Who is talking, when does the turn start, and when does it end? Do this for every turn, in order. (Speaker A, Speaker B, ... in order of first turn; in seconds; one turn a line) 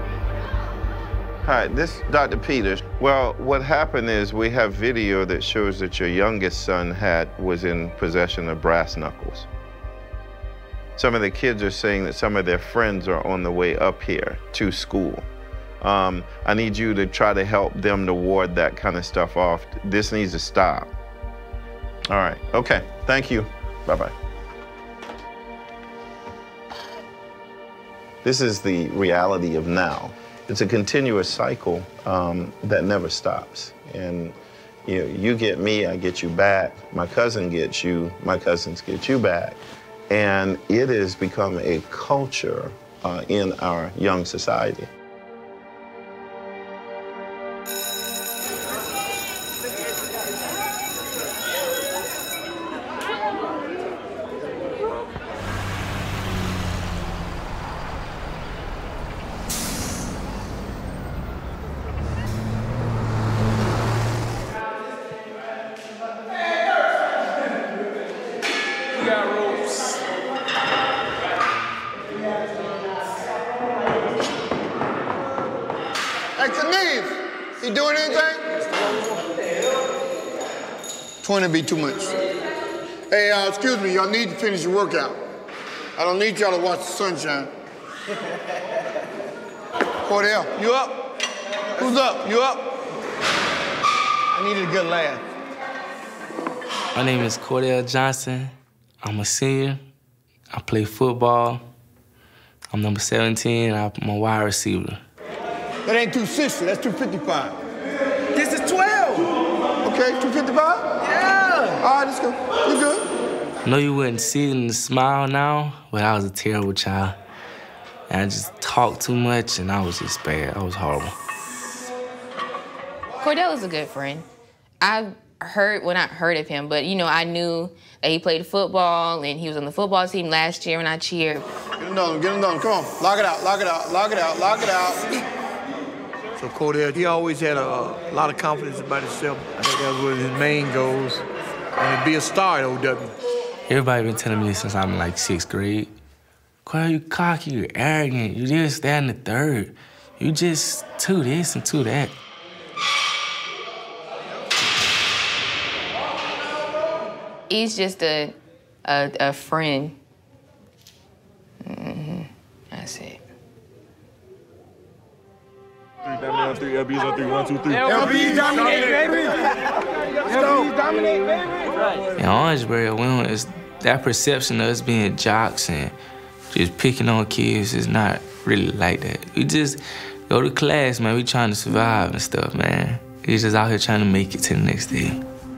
Speaker A: 1.4-9.5
Speaker A: 10.9-15.2
Speaker A: 15.8-20.9
Speaker A: 22.1-24.1
Speaker A: 28.2-39.6
Speaker A: 40.1-44.9
Speaker B: 76.4-78.4
Speaker B: 81.2-82.2
Speaker B: 83.1-85.2
Speaker B: 86.0-87.5
Speaker B: 90.0-91.0
Speaker B: 91.8-92.7
Speaker B: 94.3-95.2
Speaker C: 96.9-99.8
Speaker C: 100.5-101.6
Speaker C: 102.7-105.0
Speaker B: 105.9-107.6
Speaker B: 109.8-110.9
Speaker B: 111.8-113.0
Speaker C: 113.6-117.2
Speaker C: 118.1-121.1
Speaker D: 123.2-124.3
Speaker D: 124.8-131.5
Speaker B: 131.8-135.2
Speaker B: 136.4-141.2
Speaker B: 141.8-143.2
Speaker C: 143.7-145.9
Speaker C: 146.6-152.1
Speaker D: 157.5-160.0
Speaker D: 161.6-163.2
Speaker E: 166.3-168.8
Speaker B: 167.9-169.3
Speaker B: 170.3-170.8
Speaker C: 172.2-175.9
Speaker C: 176.5-185.2